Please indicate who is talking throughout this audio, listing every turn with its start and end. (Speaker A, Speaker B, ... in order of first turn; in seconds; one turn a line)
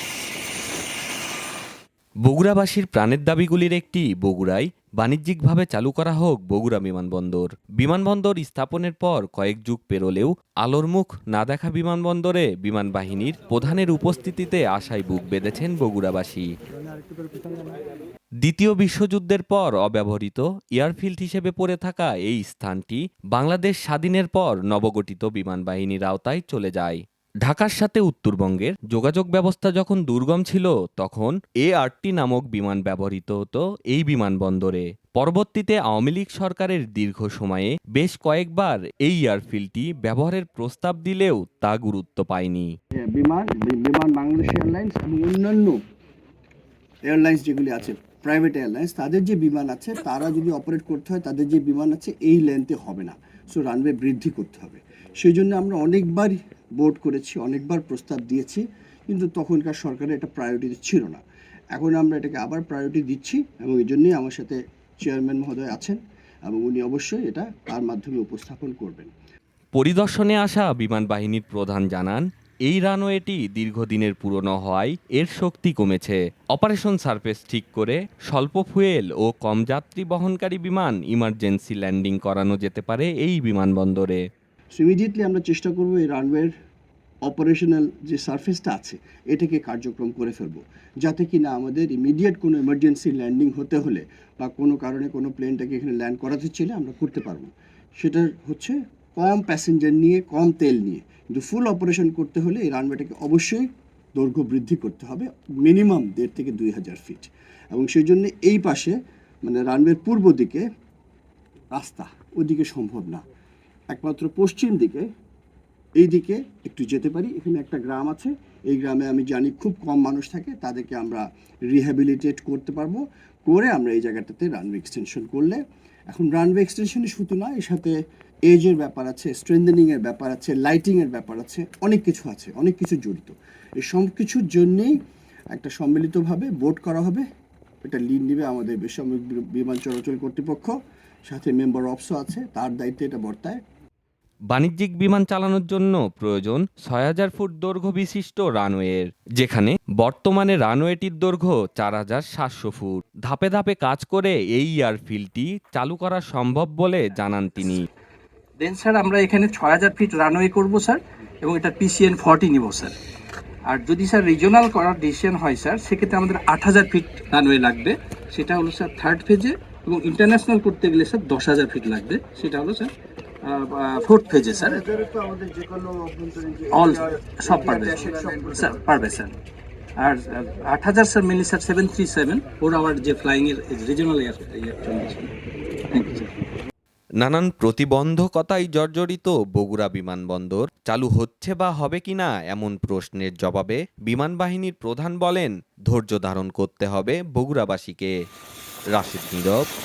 Speaker A: 2.2-16.5
Speaker A: 18.4-42.7
Speaker B: 43.1-45.8
Speaker B: 47.1-61.2
Speaker B: 61.7-69.1
Speaker A: 69.8-84.2
Speaker B: 84.8-86.5
Speaker B: 87.3-103.6
Speaker B: 104.2-110.6
Speaker B: 111.7-113.2
Speaker B: 113.9-115.0
Speaker B: 116.0-127.9
Speaker B: 128.5-134.9
Speaker B: 135.5-137.2
Speaker B: 137.8-140.7
Speaker B: 141.3-143.6
Speaker A: 144.5-157.8
Speaker C: 158.6-162.9
Speaker C: 163.7-172.9
Speaker C: 173.4-174.8
Speaker B: 174.5-179.2
Speaker C: 176.7-179.3
Speaker C: 180.0-185.3
Speaker C: 185.9-186.3
Speaker A: 187.2-198.1
Speaker A: 198.9-199.7